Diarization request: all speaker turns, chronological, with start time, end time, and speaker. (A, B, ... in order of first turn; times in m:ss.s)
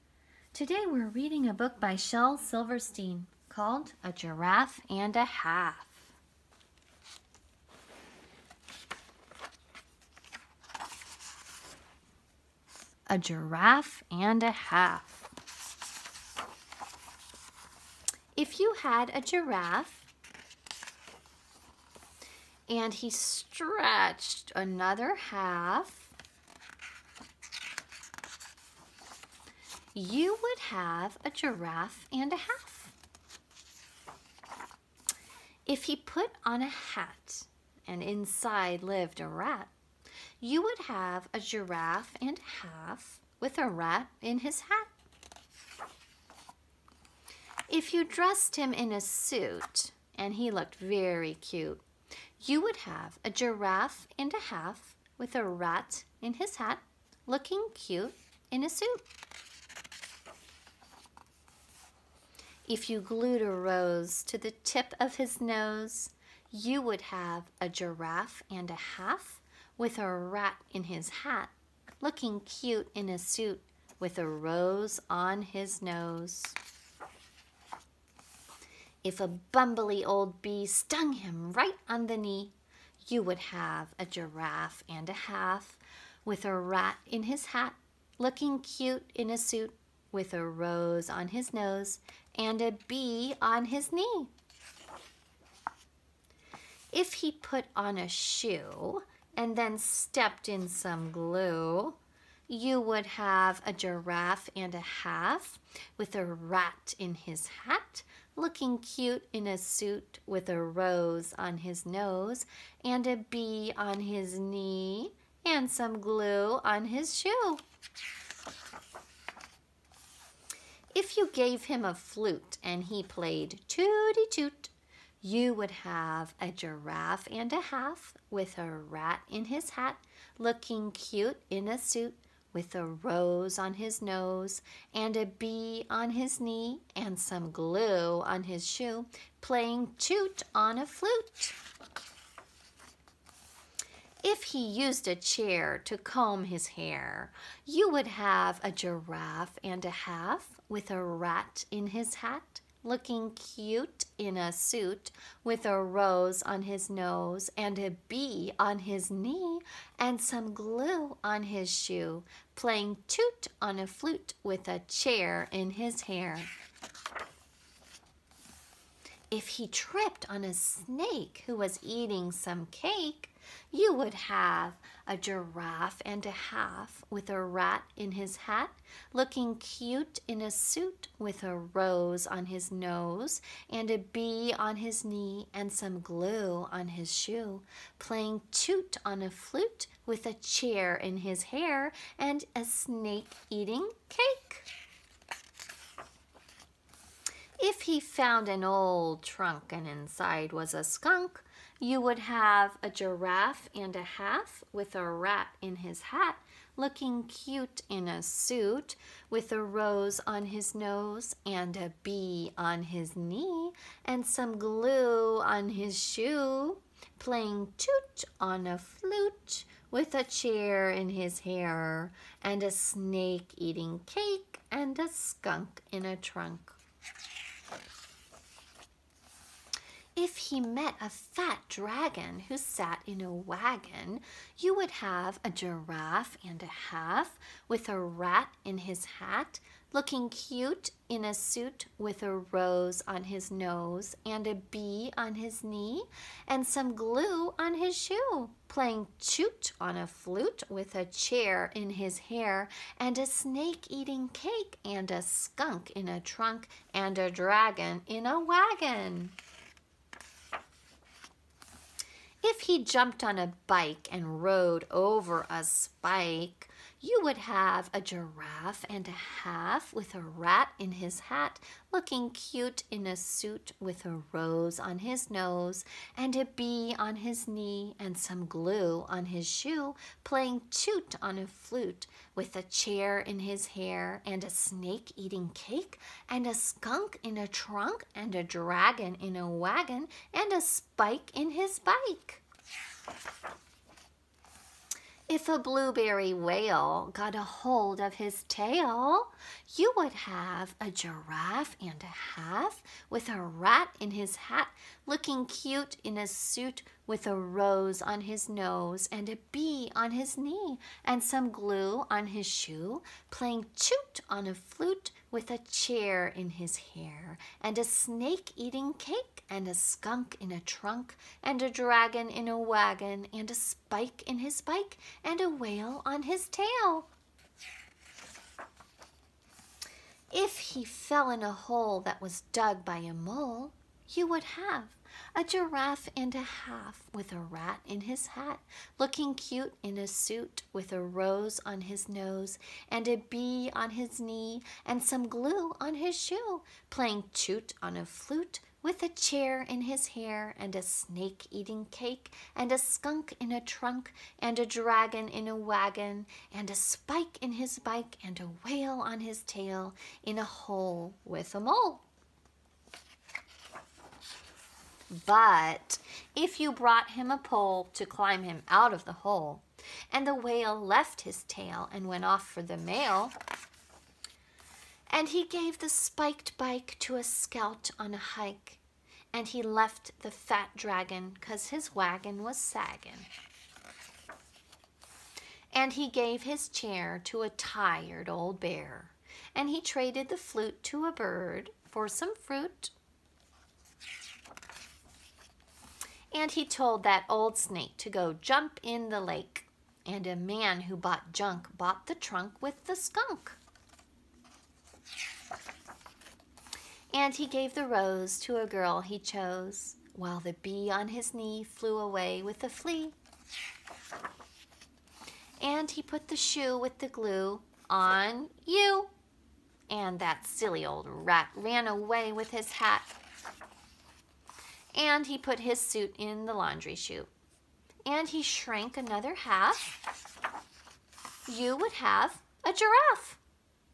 0:00.5-0:06.1 A
0:13.1-0:15.3 A
0:18.4-0:20.1 A
0:22.7-0:26.1 A
0:29.9-0:32.9 A
0:35.7-0:39.7 A
0:40.4-0:44.9 A
0:47.7-0:51.8 A
0:52.4-0:59.1 A
1:02.7-1:16.6 A
1:19.0-1:34.3 A
1:36.9-1:57.6 A
2:00.9-2:21.6 A
2:24.2-2:46.5 A
2:49.3-3:14.7 A
3:17.6-3:46.8 A
3:50.2-4:19.4 A
4:22.4-4:52.4 A
4:55.3-5:27.1 A
5:30.3-6:02.0 A
6:05.1-6:13.4 A
6:15.1-6:18.8 A
6:19.3-6:23.3 A
6:25.7-6:32.9 A
6:36.3-6:43.6 A
6:47.1-6:53.2 A
6:55.6-6:59.1 A
6:59.9-7:03.1 A
7:04.9-7:07.3 A
7:08.0-7:10.0 A
7:11.5-7:13.4 A